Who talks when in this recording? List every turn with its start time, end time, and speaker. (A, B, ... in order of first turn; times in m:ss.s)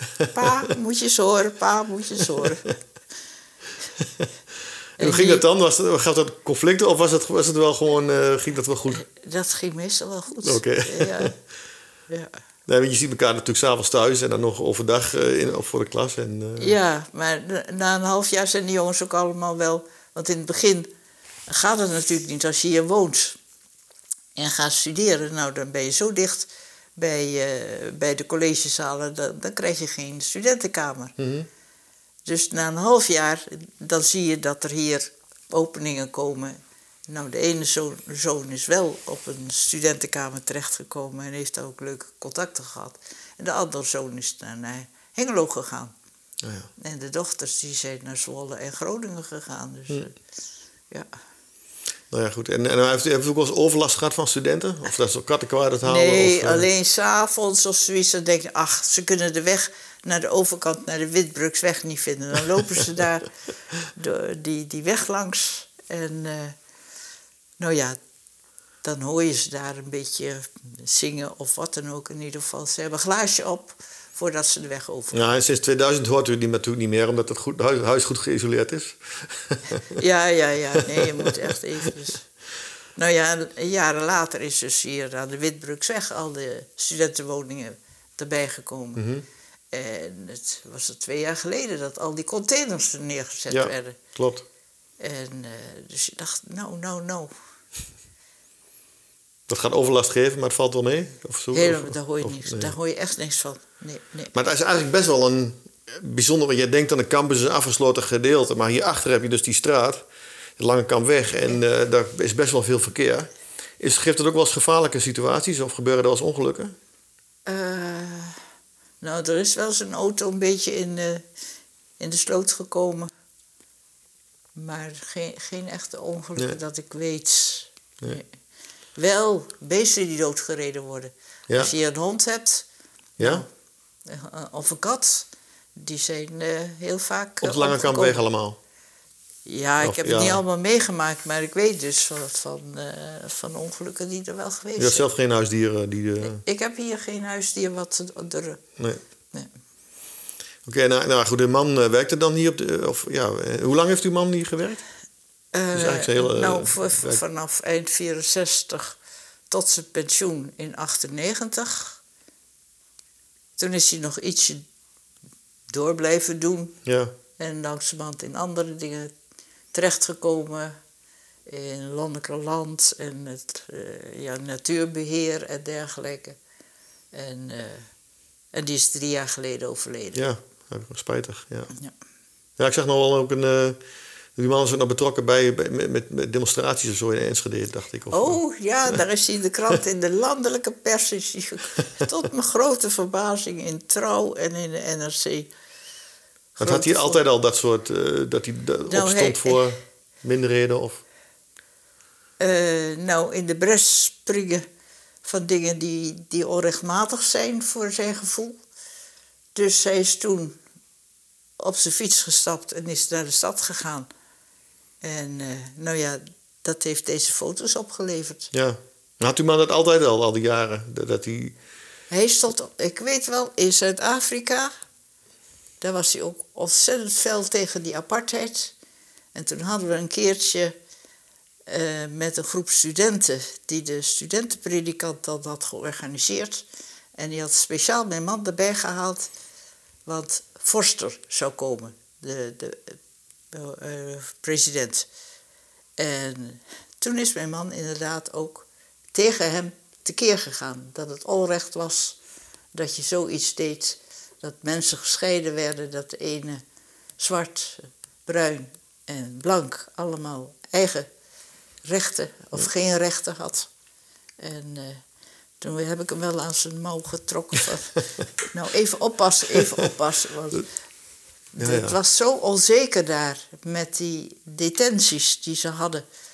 0:00.2-0:00.7 A
0:00.3-0:02.8 B
0:04.0-0:04.3 A
0:05.0-0:05.4 B
0:05.0-0:09.0 A
0:08.9-0:11.3 B
0:10.4-0:11.3 A
0:12.7-0:16.8 A
0:16.6-0:20.9 B
0:21.5-0:23.4 B
0:24.4-0:31.1 B
0:31.2-0:31.5 A
0:32.2-0:36.6 B
0:37.1-0:45.9 B
0:46.4-0:46.7 A
0:46.8-0:50.2 B
0:52.1-0:56.6 A
0:55.8-1:03.3 B
1:03.9-1:06.6 B
1:07.6-1:08.0 B
1:08.8-1:15.2 B
1:15.1-1:20.0 A
1:19.9-1:22.3 B
1:20.8-1:21.5 A
1:23.0-1:29.0 B
1:29.0-1:29.2 A
1:29.7-1:34.0 B
1:33.5-1:34.4 A
1:35.0-1:37.3 B
1:39.5-1:42.7 A
1:41.5-1:44.3 B
1:44.3-1:50.0 A
1:50.6-1:56.7 A
1:57.4-1:58.4 B
1:59.0-2:01.2 B
2:02.0-2:03.1 B
2:04.6-2:08.2 B
2:09.0-2:12.7 B
2:13.2-2:13.4 A
2:13.2-2:13.5 B
2:14.0-2:18.2 B
2:17.4-2:18.6 A
2:19.4-2:25.0 B
2:19.8-2:20.4 A
2:24.8-2:26.4 A
2:26.2-2:28.6 B
2:30.6-2:34.8 A
2:35.5-2:39.0 B
2:35.7-2:37.2 A
2:39.5-2:42.0 B
2:43.6-2:44.6 B
2:45.7-2:46.8 B
2:46.8-2:47.1 A
2:47.4-2:49.1 B
2:49.7-2:50.7 B
2:51.5-2:56.4 B
2:57.1-2:57.9 B
2:58.5-3:00.2 B
3:00.1-3:01.7 A
3:02.6-3:03.8 A
3:04.4-3:08.4 A
3:08.1-3:15.5 B
3:16.6-3:17.2 B
3:16.6-3:21.0 A
3:18.9-3:19.7 B
3:22.4-3:24.6 B
3:25.2-3:28.6 B
3:29.5-3:30.6 B
3:31.6-3:34.1 B
3:35.0-3:38.5 B
3:38.5-3:41.6 A
3:42.1-3:44.7 B
3:45.8-3:48.7 B
3:49.3-3:50.7 B
3:51.7-3:56.6 B
3:57.2-3:59.3 B
4:00.0-4:03.0 B
4:03.5-4:05.1 B
4:06.0-4:12.2 B
4:12.7-4:16.6 B
4:17.2-4:21.1 B
4:21.8-4:23.7 B
4:24.4-4:25.0 B
4:25.6-4:30.7 B
4:31.5-4:36.0 B
4:31.6-4:31.9 A